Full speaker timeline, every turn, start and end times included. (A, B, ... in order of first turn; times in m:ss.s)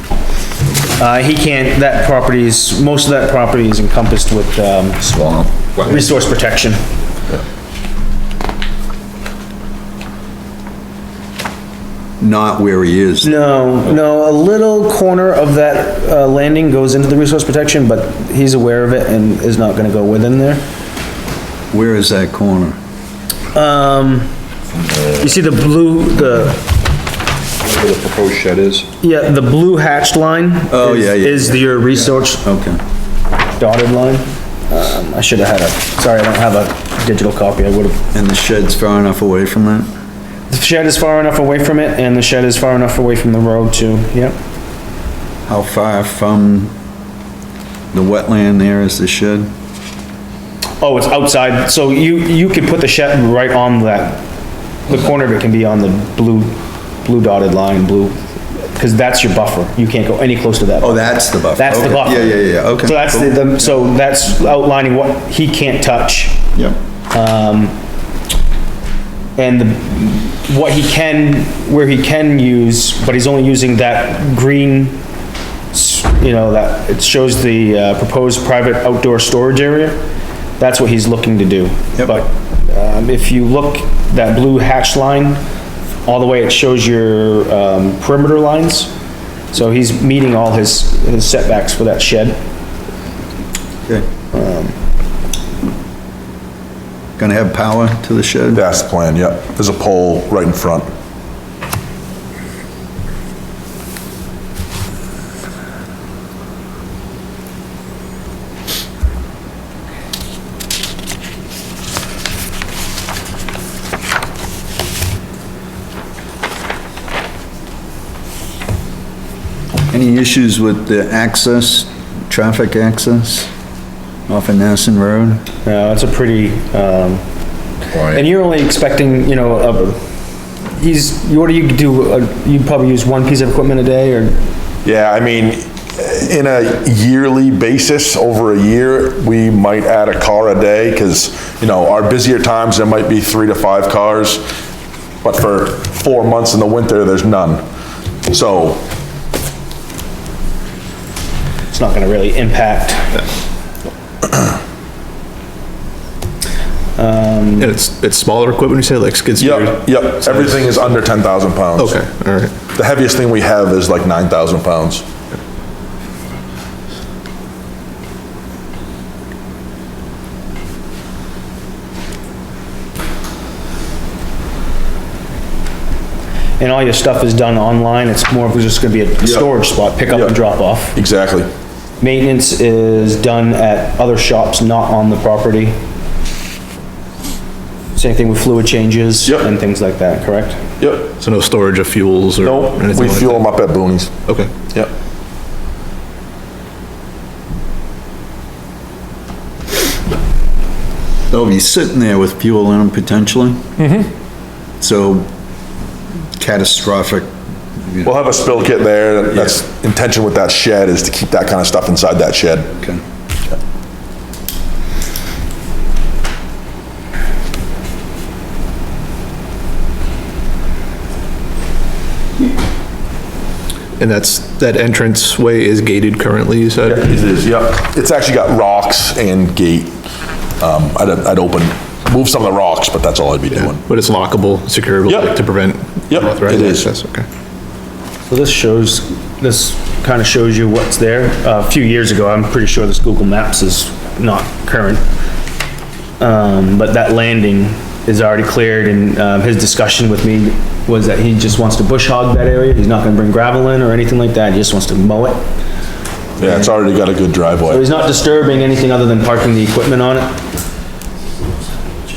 0:01.0-0:05.1 A
0:05.0-0:05.9 B
0:05.8-0:06.8 A
0:12.2-0:13.3 B
0:13.2-0:20.6 A
0:21.7-0:22.8 B
0:23.5-0:24.3 A
0:25.1-0:26.6 A
0:27.6-0:28.9 B
0:29.0-0:32.4 A
0:30.7-0:32.8 B
0:33.6-0:38.0 A
0:38.1-0:39.9 B
0:40.5-0:44.4 A
0:45.4-0:46.7 B
0:47.9-0:49.5 B
0:50.8-0:54.2 A
0:54.9-1:06.4 A
1:00.8-1:03.3 B
1:07.1-1:07.7 A
1:09.4-1:15.0 A
1:15.7-1:20.0 A
1:20.6-1:25.4 A
1:22.0-1:22.2 B
1:26.0-1:28.9 A
1:29.5-1:32.4 A
1:34.3-1:34.8 A
1:37.2-1:38.6 B
1:38.5-1:40.9 C
1:59.9-2:03.5 B
2:04.3-2:05.4 B
2:05.6-2:07.2 A
2:07.9-2:10.0 A
2:10.7-2:14.4 A
2:14.8-2:24.4 C
2:25.2-2:27.6 C
2:28.3-2:28.8 C
2:31.7-2:33.2 A
2:37.0-2:37.8 A
2:37.6-2:40.7 D
2:39.4-2:42.0 C
2:41.8-2:42.5 D
2:42.7-2:45.0 C
2:56.6-3:01.0 A
3:00.1-3:00.3 C
3:00.9-3:01.5 C
3:02.0-3:05.8 A
3:07.9-3:10.6 A
3:10.8-3:11.1 C
3:11.2-3:13.4 D
3:12.4-3:14.1 C
3:21.3-3:23.6 B
3:23.8-3:24.1 C
3:24.8-3:25.3 B
3:26.4-3:27.3 B
3:27.8-3:28.1 B
3:28.0-3:32.7 C
3:44.0-3:47.1 D
3:46.8-3:50.0 C
3:50.6-3:53.8 C
3:53.5-3:57.2 D
3:55.0-3:55.3 C
3:56.1-3:56.9 C
3:58.3-4:05.0 A
4:06.2-4:15.4 A
4:16.4-4:16.8 A
4:16.4-4:17.8 C
4:17.7-4:20.4 A